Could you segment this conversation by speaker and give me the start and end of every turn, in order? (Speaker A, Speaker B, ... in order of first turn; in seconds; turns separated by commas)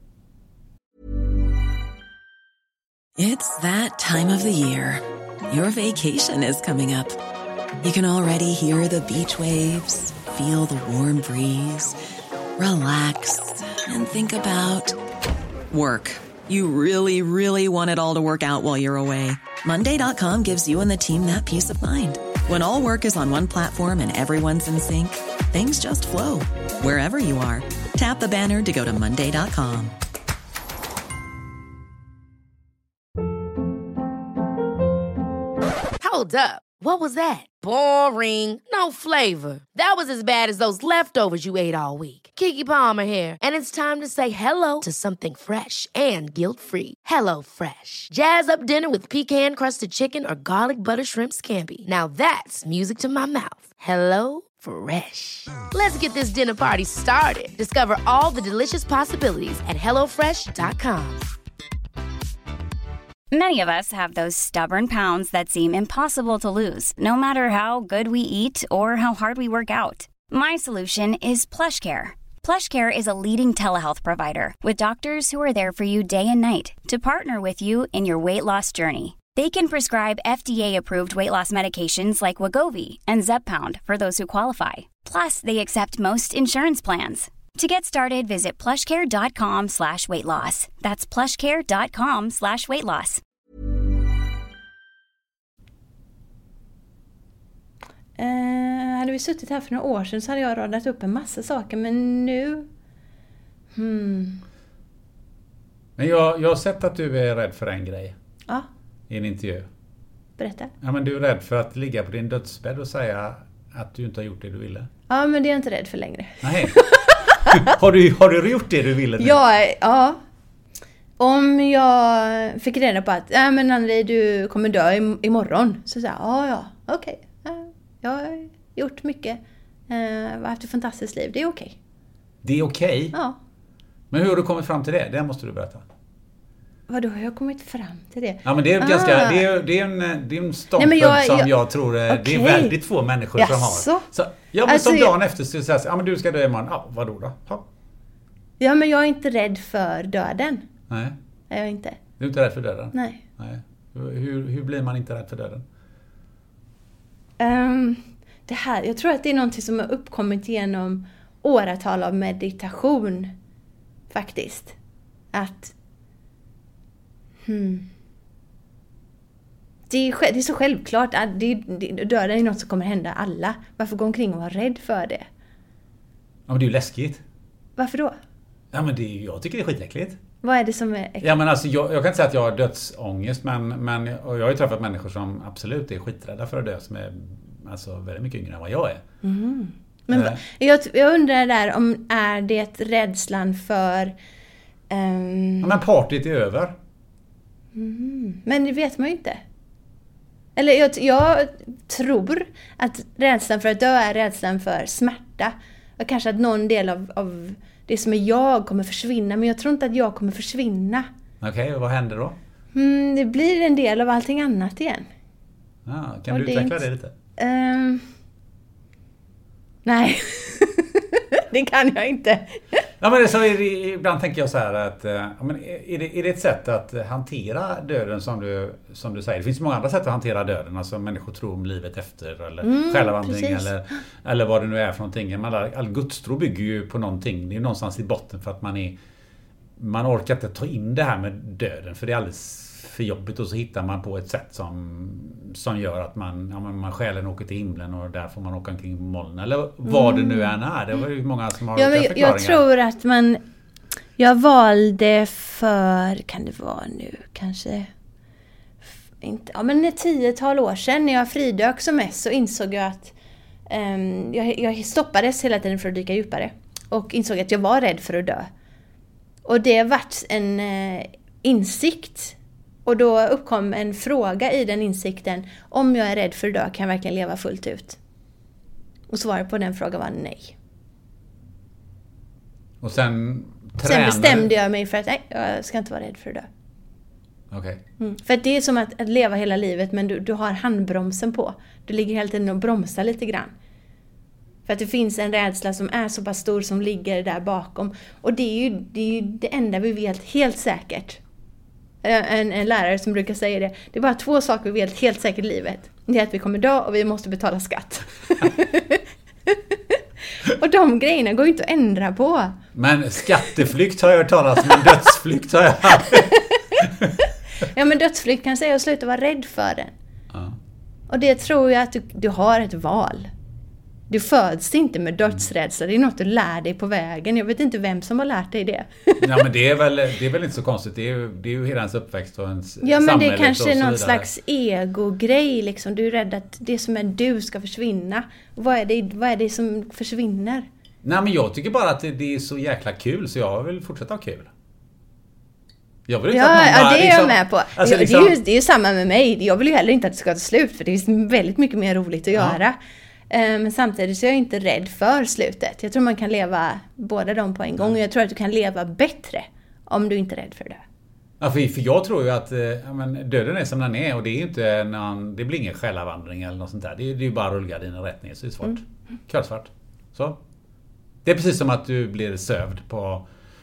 Speaker A: 3.2-7.2, Speaker A: 7.8-11.9, Speaker A: 12.6-15.0, Speaker A: 15.7-29.9, Speaker B: 36.0-61.3, Speaker C: 63.3-93.2, Speaker D: 98.2-102.7, Speaker D: 103.8-104.4, Speaker E: 106.0-108.2, Speaker E: 109.1-109.7, Speaker D: 110.4-110.7, Speaker E: 110.8-114.9, Speaker D: 115.1-117.7, Speaker E: 116.4-116.8, Speaker E: 117.5-119.4, Speaker D: 119.2-120.2, Speaker D: 121.2-131.8, Speaker E: 132.4-133.1, Speaker E: 134.1-135.8, Speaker D: 136.9-139.6, Speaker E: 138.4-147.6, Speaker D: 140.8-141.5, Speaker D: 142.1-142.8, Speaker D: 143.4-144.1, Speaker D: 144.7-145.1, Speaker D: 148.6-150.7, Speaker E: 150.9-151.2, Speaker D: 151.5-152.0, Speaker E: 152.2-155.6, Speaker D: 152.9-153.2, Speaker D: 157.4-163.3, Speaker D: 164.1-164.8, Speaker D: 165.3-165.8, Speaker D: 167.5-167.9, Speaker D: 169.9-175.3, Speaker E: 176.5-177.2, Speaker D: 177.8-178.2, Speaker E: 178.7-180.2, Speaker D: 180.4-181.4, Speaker E: 181.2-189.0, Speaker D: 189.2-194.2, Speaker E: 190.1-190.4, Speaker D: 194.9-195.8, Speaker E: 195.6-196.8, Speaker D: 197.8-199.4, Speaker D: 200.6-211.1, Speaker E: 211.4-212.4, Speaker D: 212.7-215.1, Speaker E: 215.9-217.1, Speaker D: 216.3-216.8, Speaker D: 217.4-218.1, Speaker D: 219.8-222.8, Speaker E: 223.0-239.0, Speaker D: 232.6-233.7, Speaker E: 239.8-252.6, Speaker D: 249.9-250.6, Speaker D: 251.8-253.4, Speaker D: 254.2-257.9, Speaker D: 259.2-263.1, Speaker D: 263.7-268.5, Speaker D: 269.4-278.0, Speaker D: 279.1-280.6, Speaker E: 282.8-284.5, Speaker D: 283.8-286.5, Speaker E: 287.5-287.8, Speaker D: 288.0-293.5, Speaker D: 294.7-301.2, Speaker D: 302.0-312.6, Speaker E: 312.8-317.1, Speaker D: 316.1-316.8, Speaker D: 317.6-319.9, Speaker D: 321.1-323.3, Speaker D: 324.1-329.4, Speaker E: 329.2-334.3, Speaker D: 332.8-340.7, Speaker E: 341.0-344.5, Speaker E: 346.1-348.4, Speaker D: 346.3-352.8, Speaker E: 352.3-352.6, Speaker D: 353.3-360.8, Speaker E: 361.4-370.4, Speaker E: 371.2-373.2